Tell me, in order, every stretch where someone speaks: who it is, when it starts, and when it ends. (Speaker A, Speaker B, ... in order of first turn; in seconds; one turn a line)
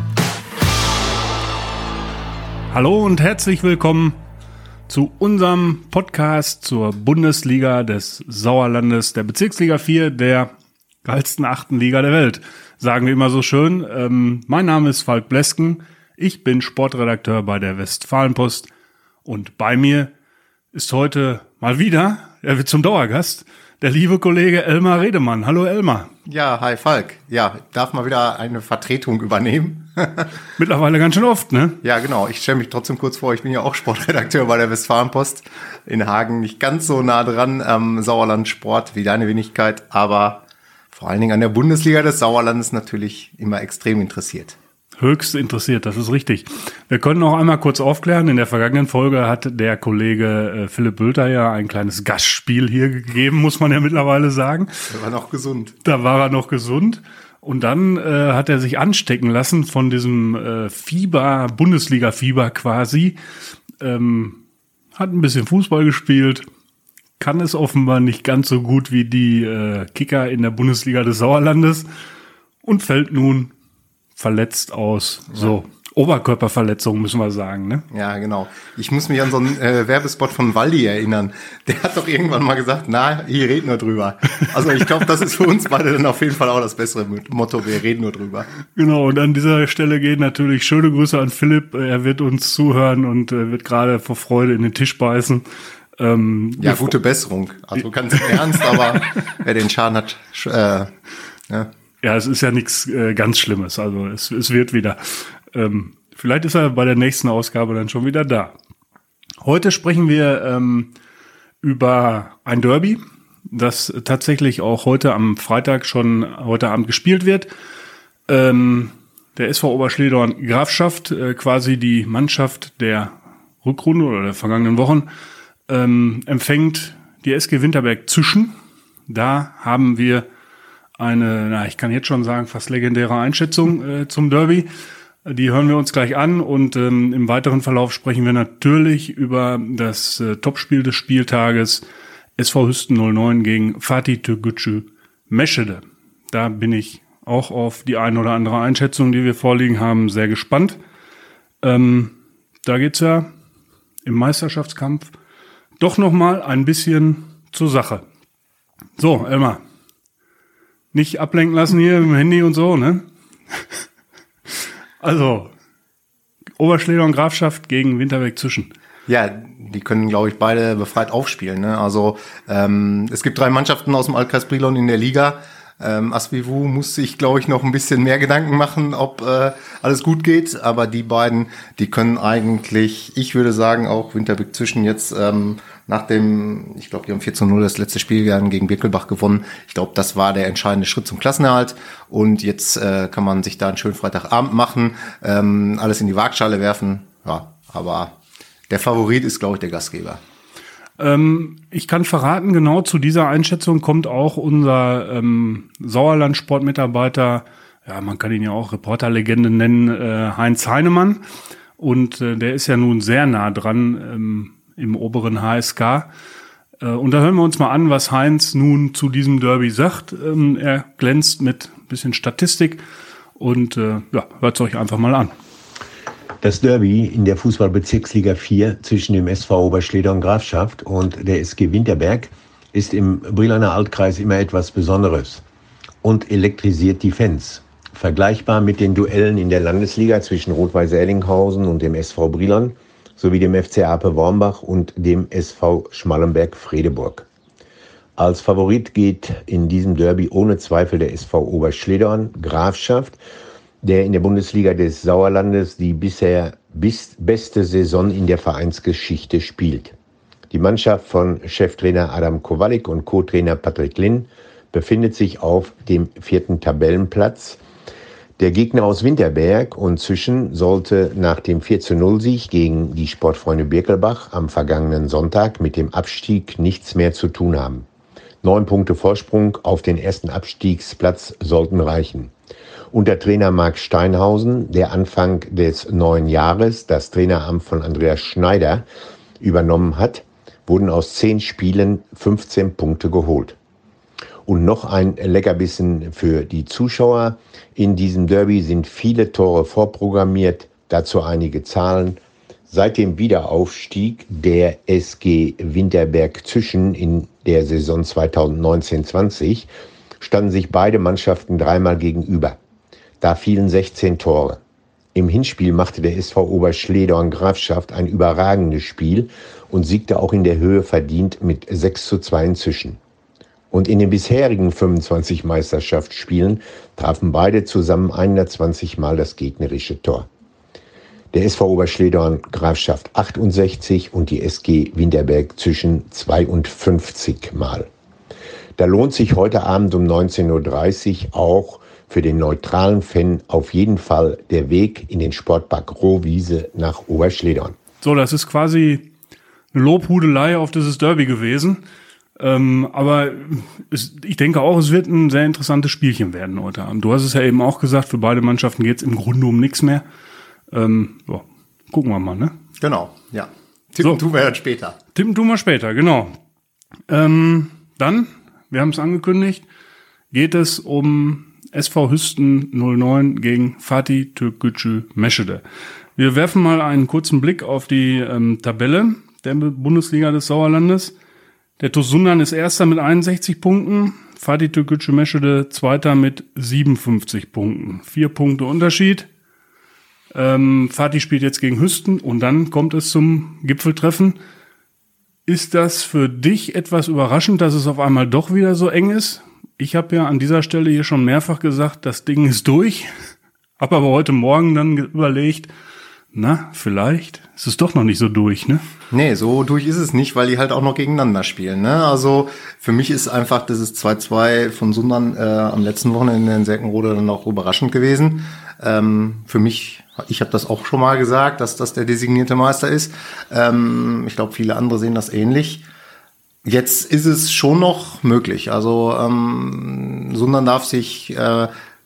Speaker A: 2.7-4.2
Speaker A: 4.9-10.5
Speaker A: 11.0-18.7
Speaker A: 19.2-20.1
Speaker A: 20.7-26.1
Speaker B: 26.3-30.3
Speaker A: 30.6-31.8
Speaker B: 31.8-44.6
Speaker A: 45.0-54.7
Speaker B: 54.9-55.8
Speaker A: 55.8-63.2
Speaker A: 63.8-64.4
Speaker A: 65.0-66.5
Speaker A: 67.2-71.9
Speaker A: 72.6-73.5
Speaker A: 74.2-77.8
Speaker B: 77.9-88.5
Speaker A: 88.8-95.4
Speaker A: 96.0-97.0
Speaker B: 96.6-100.9
Speaker A: 102.0-108.5
Speaker A: 109.4-110.9
Speaker A: 111.6-117.5
Speaker A: 118.3-125.1
Speaker A: 125.7-128.5
Speaker A: 129.1-130.3
Speaker A: 131.0-134.7
Speaker A: 135.2-141.8
Speaker A: 142.4-150.8
Speaker A: 151.6-152.1
Speaker A: 152.7-153.3
Speaker A: 154.1-155.1
Speaker A: 155.8-158.1
Speaker A: 159.0-159.6
Speaker A: 160.9-163.7
Speaker A: 165.0-165.5
Speaker A: 166.6-168.7
Speaker B: 169.1-198.2
Speaker B: 198.7-200.2
Speaker A: 201.0-211.2
Speaker A: 211.8-216.1
Speaker A: 216.8-222.8
Speaker A: 223.4-225.3
Speaker C: 226.4-235.4
Speaker C: 236.0-247.3
Speaker C: 248.2-253.2
Speaker C: 253.8-259.9
Speaker C: 260.5-267.6
Speaker C: 268.4-277.9
Speaker C: 278.4-282.3
Speaker C: 282.9-288.9
Speaker C: 289.4-293.6
Speaker C: 294.4-309.7
Speaker C: 310.2-312.6
Speaker C: 313.2-314.6
Speaker C: 315.1-323.0
Speaker C: 323.7-330.3
Speaker C: 331.3-337.9
Speaker C: 338.8-347.8
Speaker A: 348.0-349.1
Speaker A: 349.7-351.8
Speaker A: 352.4-360.0
Speaker A: 360.7-362.5
Speaker B: 362.8-365.0
Speaker A: 365.1-366.4
Speaker A: 367.1-369.7
Speaker A: 370.3-375.6
Speaker A: 376.2-381.1
Speaker A: 381.8-389.3
Speaker A: 390.3-394.4
Speaker A: 395.5-403.1
Speaker A: 403.8-405.7
Speaker A: 406.3-408.8
Speaker B: 409.1-425.8
Speaker B: 426.6-431.7